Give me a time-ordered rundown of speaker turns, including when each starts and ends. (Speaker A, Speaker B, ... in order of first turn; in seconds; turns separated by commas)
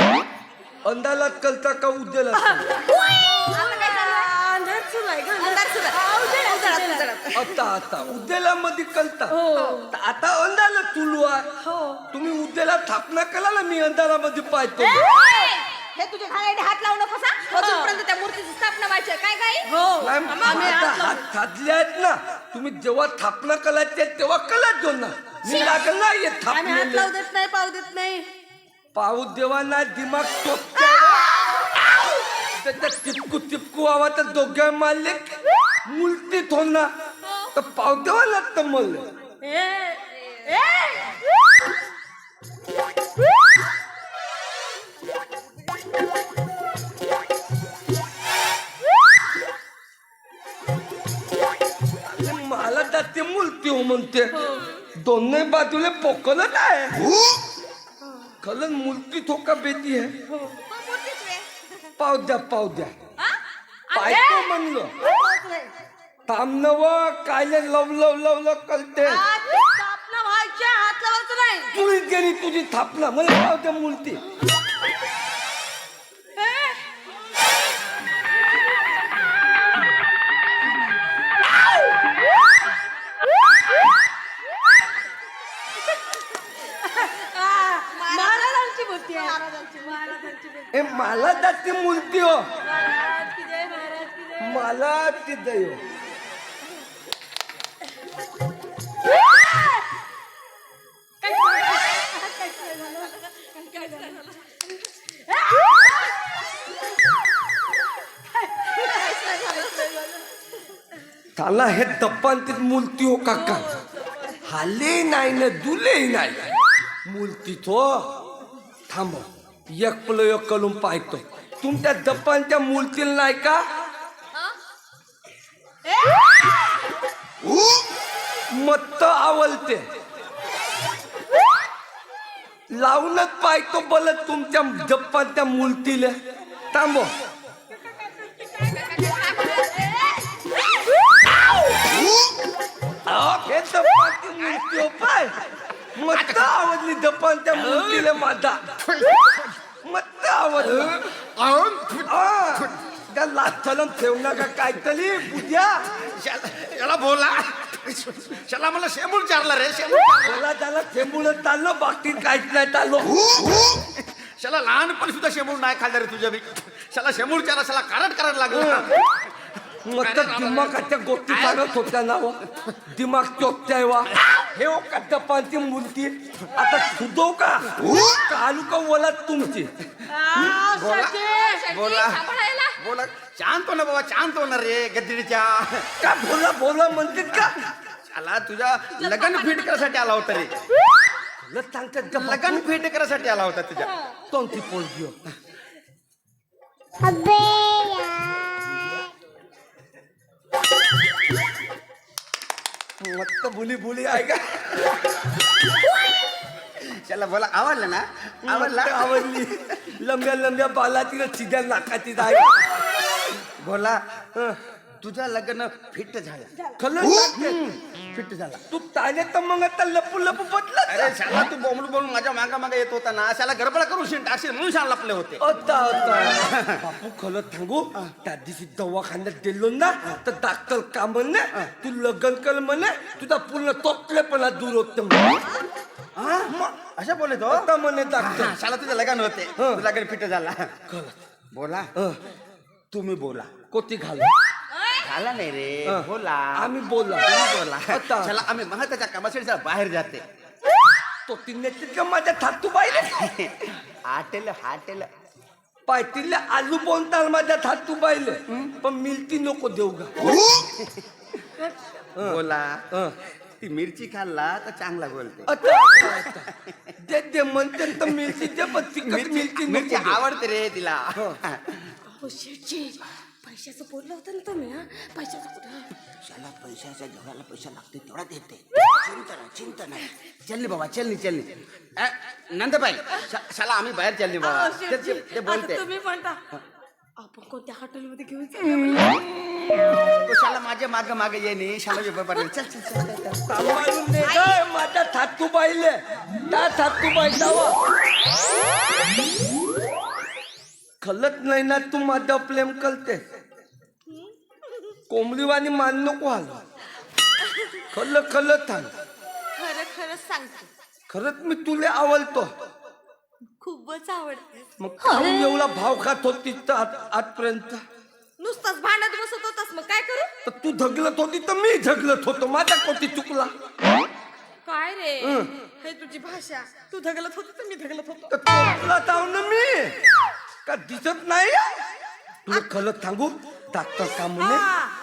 Speaker A: 0.8-2.7, Speaker B: 2.3-7.1, Speaker C: 2.8-4.3, Speaker C: 5.4-7.6, Speaker A: 7.3-9.4, Speaker B: 9.3-9.9, Speaker C: 9.6-9.8, Speaker A: 9.9-11.5, Speaker B: 11.6-12.0, Speaker A: 12.1-15.1, Speaker C: 14.9-19.7, Speaker B: 17.5-18.0, Speaker B: 19.6-21.2, Speaker A: 20.0-27.1, Speaker C: 20.4-20.9, Speaker B: 25.4-25.8, Speaker B: 26.5-28.3, Speaker A: 28.9-31.3, Speaker C: 31.1-31.6, Speaker A: 32.6-36.9, Speaker A: 37.5-39.0, Speaker B: 39.4-41.2, Speaker A: 52.0-57.1, Speaker B: 54.3-54.7, Speaker A: 58.4-60.1, Speaker B: 60.3-60.6, Speaker C: 60.7-61.9, Speaker A: 62.0-62.9, Speaker C: 63.2-64.5, Speaker A: 63.9-64.9, Speaker C: 65.0-65.7, Speaker B: 65.0-65.3, Speaker A: 66.3-69.2, Speaker C: 69.0-71.7, Speaker A: 71.7-74.2, Speaker B: 76.4-76.9, Speaker B: 86.6-90.7, Speaker C: 87.8-88.5, Speaker C: 89.1-90.3, Speaker A: 90.7-92.5, Speaker B: 92.6-94.7, Speaker A: 94.4-95.8, Speaker B: 99.1-99.8, Speaker B: 101.2-106.1, Speaker B: 108.3-109.6, Speaker C: 108.7-110.2, Speaker A: 111.3-113.7, Speaker B: 113.3-114.4, Speaker A: 114.4-116.5, Speaker A: 117.0-118.1, Speaker A: 118.9-123.7, Speaker C: 125.9-126.6, Speaker A: 128.5-129.8, Speaker A: 132.7-136.2, Speaker A: 136.7-137.1, Speaker B: 137.9-138.7, Speaker C: 138.5-140.2, Speaker A: 143.1-145.4, Speaker A: 145.9-148.7, Speaker D: 146.1-146.5, Speaker D: 147.7-148.1, Speaker D: 148.8-149.5, Speaker A: 149.8-151.2, Speaker D: 150.6-152.8, Speaker A: 152.1-155.8, Speaker D: 155.9-160.4, Speaker A: 160.2-163.5, Speaker D: 163.5-171.9, Speaker A: 168.5-168.9, Speaker A: 169.8-179.7, Speaker B: 180.1-181.7, Speaker D: 180.3-181.2, Speaker C: 181.2-182.8, Speaker D: 181.7-185.9, Speaker A: 186.0-187.7, Speaker D: 187.3-190.5, Speaker C: 189.0-189.9, Speaker A: 191.4-192.6, Speaker D: 192.2-193.9, Speaker A: 194.3-195.2, Speaker C: 197.0-198.5, Speaker A: 203.0-204.9, Speaker D: 206.8-209.7, Speaker A: 208.4-212.8, Speaker D: 213.4-214.2, Speaker D: 215.0-216.5, Speaker A: 216.8-217.7, Speaker D: 217.2-218.6, Speaker A: 218.7-221.2, Speaker D: 220.9-226.8, Speaker A: 225.4-235.4, Speaker D: 236.2-240.8, Speaker A: 237.5-238.5, Speaker A: 239.6-239.8, Speaker A: 240.9-241.2, Speaker D: 241.5-241.9, Speaker D: 242.9-243.5, Speaker A: 243.7-244.3, Speaker C: 244.7-245.0, Speaker D: 245.0-250.2, Speaker A: 245.8-247.3, Speaker A: 247.9-248.3, Speaker A: 251.3-253.3, Speaker D: 252.9-255.1, Speaker A: 255.9-260.1, Speaker D: 260.2-261.0, Speaker D: 262.2-262.9, Speaker D: 263.5-266.9, Speaker A: 265.5-270.2, Speaker D: 267.8-271.9, Speaker B: 272.1-275.9, Speaker D: 276.2-285.8, Speaker B: 284.4-286.4, Speaker B: 287.2-289.2, Speaker A: 289.0-289.7, Speaker D: 290.2-293.4, Speaker A: 293.5-297.8, Speaker C: 294.2-294.6, Speaker A: 301.0-303.2, Speaker A: 305.1-306.6, Speaker C: 307.4-307.8, Speaker A: 307.9-308.9, Speaker C: 309.5-310.7, Speaker A: 311.1-312.5, Speaker C: 313.6-315.3, Speaker A: 314.8-317.8, Speaker C: 318.4-320.3, Speaker A: 320.4-323.5, Speaker C: 324.6-328.4, Speaker A: 325.2-325.5, Speaker A: 328.3-330.0, Speaker A: 330.6-331.9, Speaker A: 332.4-334.7, Speaker C: 334.3-334.9